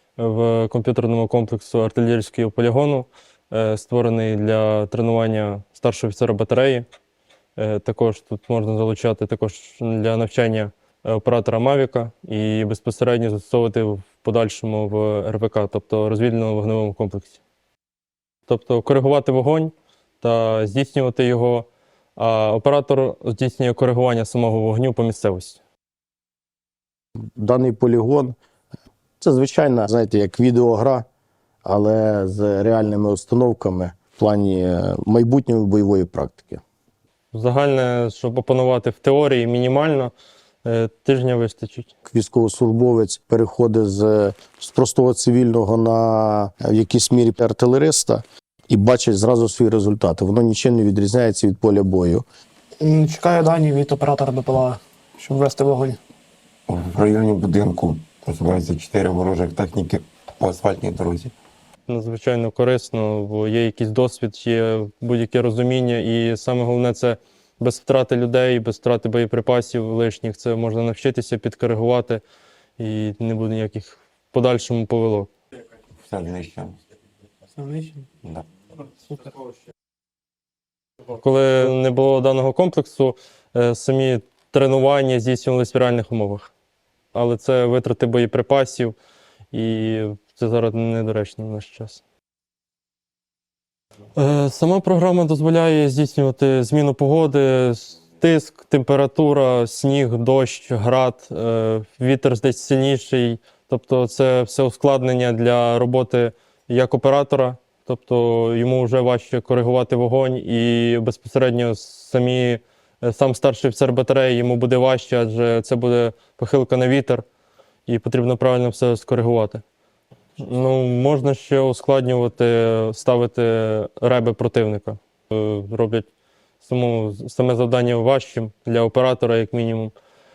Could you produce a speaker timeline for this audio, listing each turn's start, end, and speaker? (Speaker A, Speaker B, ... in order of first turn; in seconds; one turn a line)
Speaker A: 0.2-6.9
Speaker A: 7.6-17.4
Speaker A: 18.5-25.6
Speaker B: 27.4-28.4
Speaker B: 29.2-31.1
Speaker B: 31.6-36.6
Speaker A: 37.3-40.1
Speaker A: 40.6-41.9
Speaker B: 42.1-52.2
Speaker C: 52.8-56.0
Speaker D: 56.7-61.3
Speaker A: 61.9-72.2
Speaker A: 72.8-75.3
Speaker D: 76.0-76.8
Speaker C: 77.6-78.1
Speaker A: 81.1-86.5
Speaker A: 87.1-89.0
Speaker A: 89.5-92.0
Speaker A: 94.2-117.2
Speaker A: 117.9-119.6
Speaker A: 120.4-126.1
Speaker A: 126.6-129.9